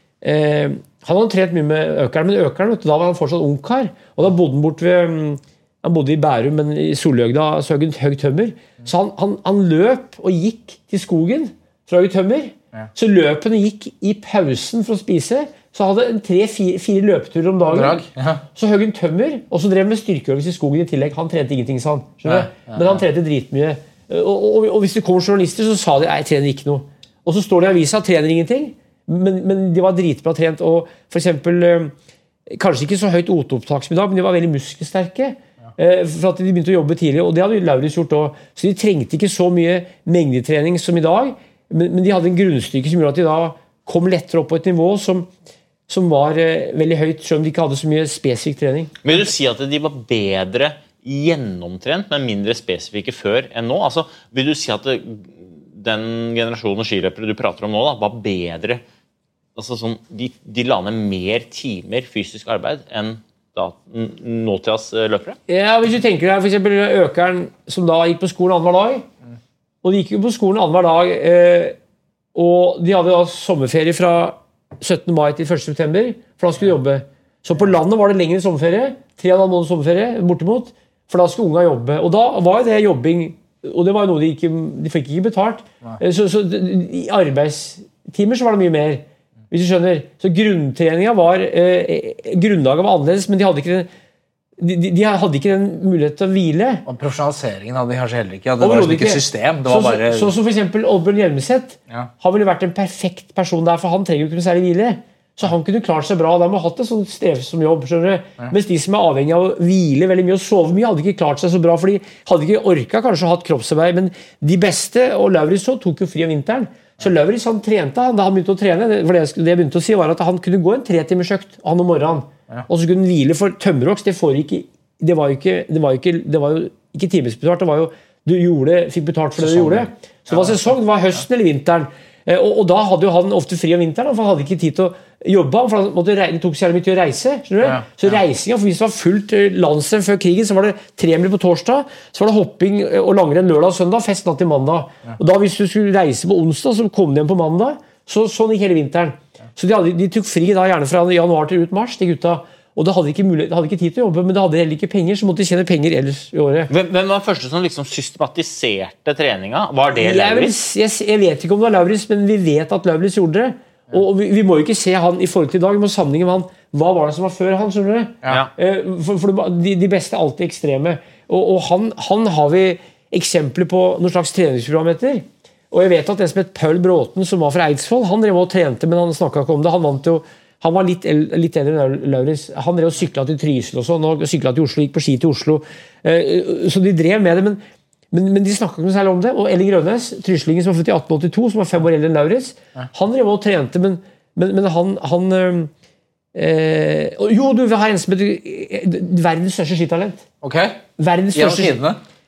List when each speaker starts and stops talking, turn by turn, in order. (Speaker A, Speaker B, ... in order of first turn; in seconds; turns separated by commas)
Speaker A: 0.2-18.0, Speaker B: 17.7-18.4, Speaker A: 18.5-31.9, Speaker B: 22.2-23.0, Speaker A: 32.5-45.3, Speaker A: 45.9-48.9, Speaker C: 49.0-58.8, Speaker C: 59.5-65.4, Speaker A: 65.5-69.0, Speaker A: 69.8-71.8, Speaker A: 72.3-93.9, Speaker A: 94.6-96.8, Speaker B: 96.8-100.3, Speaker A: 98.6-156.7, Speaker B: 129.4-130.6, Speaker C: 156.7-160.6, Speaker A: 160.0-195.7, Speaker A: 196.3-200.2, Speaker B: 200.4-200.8, Speaker A: 201.0-201.8, Speaker B: 201.3-202.0